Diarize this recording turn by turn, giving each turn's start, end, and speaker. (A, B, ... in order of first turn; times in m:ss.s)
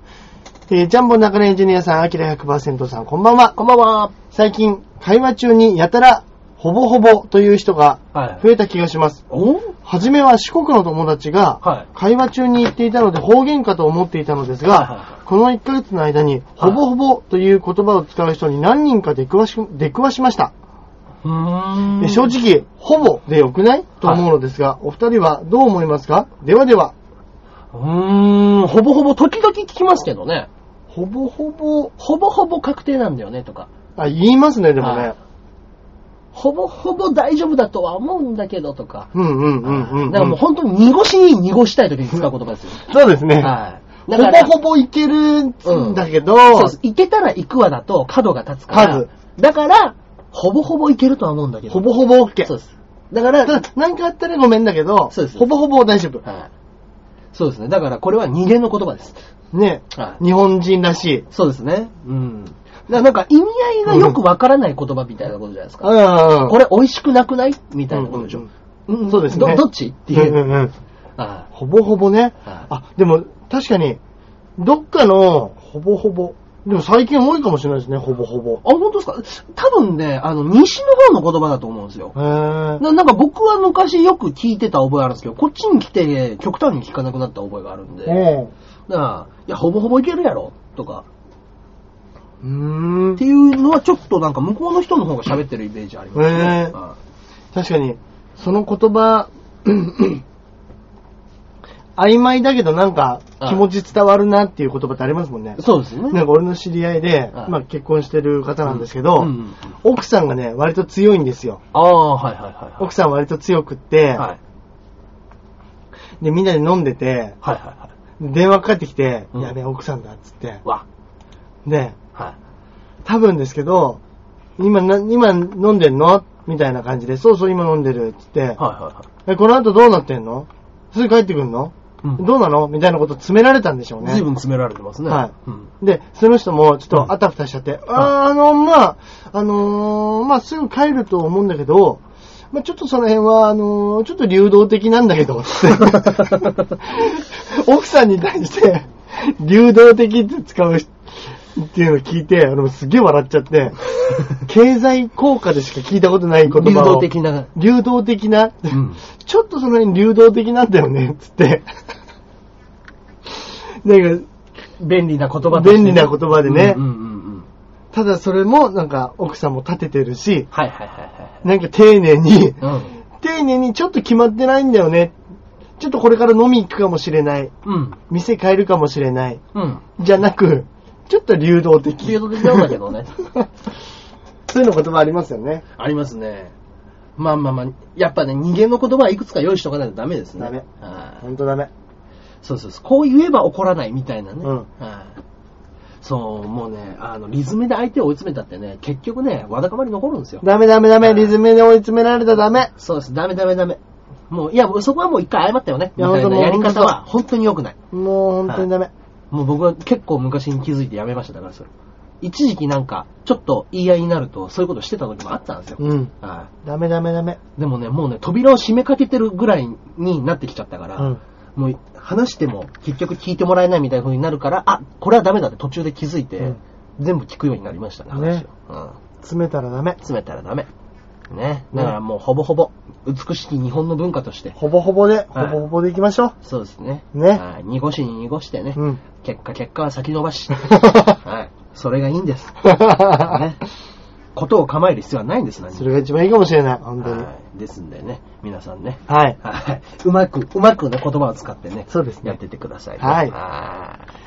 0:00.7-0:03.6 A
0:03.6-0:04.1 B
0:04.3-0:09.2 A
0:08.1-0:08.4 B
0:09.3-0:09.8 B
0:09.8-0:20.5 A
0:11.6-0:11.9 B
0:14.7-0:15.2 B
0:21.2-0:22.3 B
0:22.0-0:26.9 A
0:27.7-0:30.5 B
0:30.9-0:31.9 A
0:32.0-0:33.7 B
0:34.0-0:35.2 A
0:34.8-0:35.1 B
0:36.3-0:42.9 B
0:39.1-0:40.4 A
0:42.8-0:43.5 A
0:43.4-0:44.5 B
0:44.1-0:46.8 A
0:45.6-0:51.9 B
0:48.7-0:49.1 A
0:51.7-0:52.5 A
0:52.4-0:53.6 B
0:53.4-0:56.2 A
0:55.1-0:55.5 B
0:56.2-0:56.5 B
0:57.3-0:59.2 B
0:59.5-1:01.3 A
1:00.0-1:00.2 B
1:01.3-1:10.5 B
1:03.9-1:04.2 A
1:05.8-1:06.6 A
1:07.9-1:08.5 A
1:09.1-1:10.7 A
1:11.2-1:11.5 B
1:11.5-1:14.0 A
1:14.6-1:18.6 A
1:18.6-1:22.2 B
1:22.2-1:22.8 A
1:22.8-1:28.2 B
1:28.1-1:28.5 A
1:28.9-1:31.1 B
1:32.4-1:33.2 A
1:33.2-1:37.0 B
1:36.2-1:36.8 A
1:37.5-1:40.2 A
1:42.0-1:51.6 A
1:43.4-1:43.6 B
1:45.6-1:46.2 B
1:48.7-1:49.7 B
1:51.7-1:52.9 B
1:52.8-1:54.3 A
1:56.2-1:57.4 A
1:57.4-1:57.9 B
1:58.2-2:00.6 A
2:01.6-2:02.0 A
2:03.0-2:04.0 A
2:04.6-2:08.6 A
2:08.6-2:09.1 B
2:09.3-2:14.2 A
2:14.0-2:15.7 B
2:15.1-2:41.7 A
2:36.5-2:37.5 B
2:38.7-2:39.0 B
2:43.4-2:44.3 A
2:44.8-2:47.5 B
2:45.5-2:46.8 A
2:47.9-2:50.5 A
2:50.5-2:51.4 B
2:51.4-2:52.6 A
2:52.6-2:53.0 B
2:53.1-2:55.2 A
2:55.8-2:57.5 A
2:57.6-2:58.0 B
2:58.1-2:59.4 A
2:59.5-2:59.8 B
3:00.0-3:02.7 A
3:02.0-3:03.2 B
3:04.5-3:05.6 A
3:05.8-3:06.5 B
3:07.2-3:11.2 B
3:10.4-3:10.7 A
3:11.2-3:11.7 A
3:12.4-3:15.2 B
3:16.0-3:20.4 B
3:20.4-3:22.7 A
3:21.0-3:21.4 B
3:22.8-3:23.8 B
3:24.3-3:27.8 B
3:26.0-3:27.0 A
3:27.9-3:28.9 A
3:29.3-3:31.7 B
3:32.2-3:36.5 B
3:35.8-3:36.1 A
3:36.6-3:37.4 A
3:37.6-3:49.0 B
3:48.1-3:48.4 A
3:49.2-3:50.0 A
3:50.0-3:50.7 B
3:51.3-3:54.6 B
3:54.6-3:56.3 A
3:56.4-4:03.6 B
3:57.1-3:57.4 A
3:58.8-3:59.0 A
4:02.6-4:03.4 A
4:04.4-4:05.9 B
4:05.7-4:07.3 A
4:07.0-4:14.0 B
4:09.1-4:09.4 A
4:11.9-4:12.4 A
4:13.0-4:13.4 A